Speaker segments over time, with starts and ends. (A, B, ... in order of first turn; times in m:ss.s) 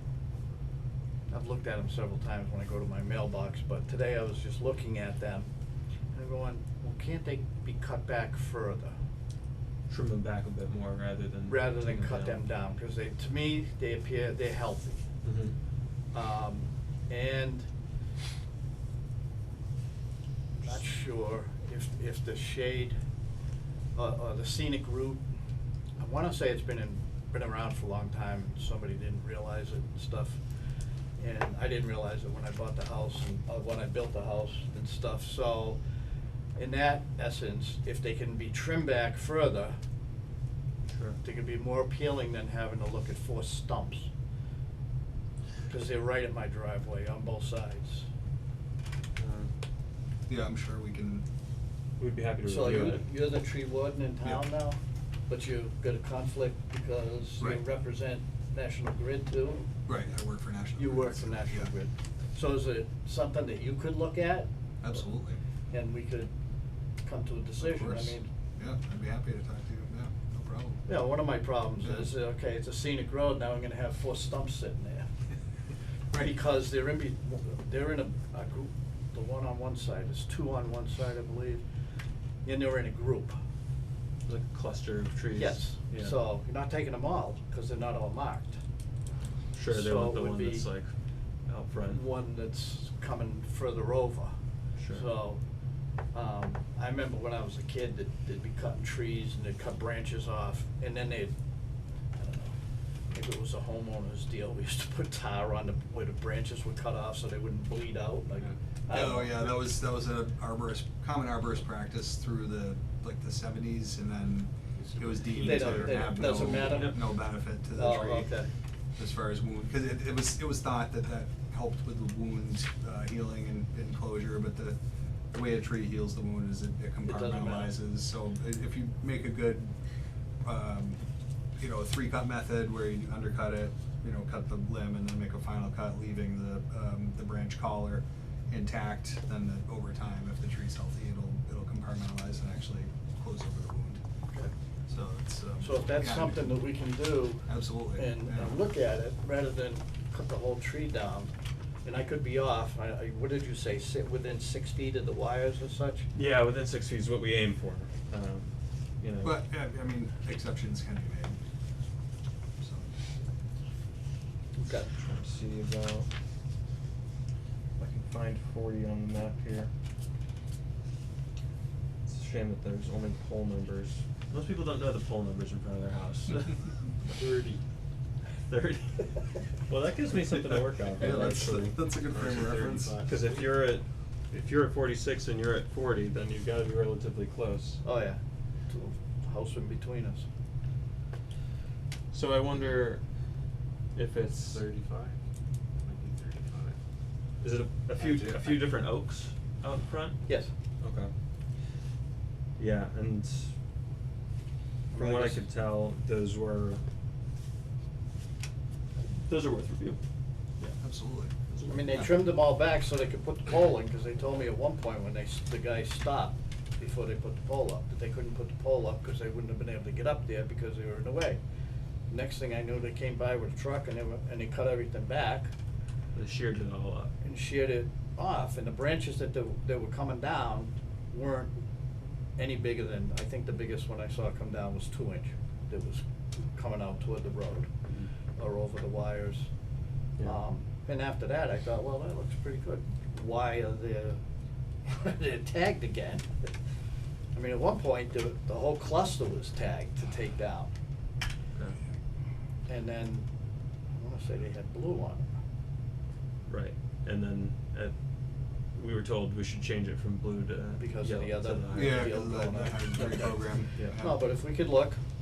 0:01.3-0:05.5 A
0:06.1-0:09.0 A
0:09.9-0:12.4 B
0:11.4-0:15.0 A
0:15.2-0:15.5 B
0:16.1-0:17.7 A
0:20.6-0:23.0 A
0:23.9-0:25.2 A
0:26.0-0:30.4 A
0:31.2-0:35.8 A
0:36.5-0:39.8 A
0:40.9-0:41.2 B
0:41.2-0:44.1 A
0:45.7-0:48.1 A
0:49.2-0:49.5 B
0:50.3-0:51.2 C
0:52.0-0:53.0 B
0:52.4-0:59.7 A
0:59.8-1:01.7 C
1:00.8-1:04.5 A
1:04.8-1:05.4 C
1:05.7-1:06.3 A
1:07.0-1:08.3 A
1:07.6-1:10.8 C
1:10.9-1:15.1 A
1:11.8-1:12.1 C
1:16.1-1:21.6 A
1:22.4-1:23.4 A
1:24.2-1:26.2 B
1:25.3-1:28.6 A
1:29.5-1:30.9 B
1:29.7-1:30.7 A
1:31.5-1:32.0 B
1:31.8-1:34.3 A
1:34.8-1:35.0 B
1:34.9-1:35.4 A
1:36.1-1:41.3 A
1:42.2-1:42.6 A
1:43.1-1:49.5 A
1:48.9-1:58.3 C
1:54.7-1:56.2 D
1:55.3-1:57.1 A
1:56.1-1:57.0 B
1:57.7-1:58.5 A
1:59.0-2:04.8 C
2:05.3-2:09.7 C
2:07.0-2:07.8 A
2:10.4-2:11.0 C
2:11.6-2:24.0 C
2:24.9-2:26.6 C
2:25.6-2:31.3 A
2:27.4-2:28.6 C
2:31.8-2:36.0 A
2:36.1-2:39.4 B
2:39.2-2:41.4 C
2:42.6-2:43.0 C
2:44.5-2:44.9 A
2:45.0-2:46.1 B
2:47.8-2:49.7 B
2:52.0-2:57.6 B
2:58.5-3:01.9 B
3:01.0-3:03.0 C
3:01.0-3:01.3 D
3:01.8-3:03.7 D
3:03.0-3:07.8 B
3:07.8-3:10.2 A
3:12.1-3:13.0 B
3:13.9-3:14.6 B
3:14.4-3:15.2 D
3:15.8-3:16.8 D
3:17.4-3:21.1 B
3:18.0-3:18.7 D
3:20.2-3:20.5 A
3:22.6-3:23.5 B
3:24.9-3:25.4 A
3:24.9-3:26.8 B
3:29.0-3:30.0 B
3:30.8-3:31.3 C
3:31.5-3:32.0 B
3:31.7-3:41.4 A
3:42.1-3:45.5 A
3:46.1-3:47.1 B
3:47.2-3:51.5 A
3:52.4-3:57.7 A
3:58.4-3:59.5 A
4:00.2-4:04.2 A
4:04.8-4:06.3 A
4:07.3-4:10.7 A
4:12.6-4:13.3 A
4:14.0-4:15.3 A
4:16.5-4:22.1 B
4:20.8-4:23.4 A
4:21.7-4:24.2 C
4:24.0-4:25.0 A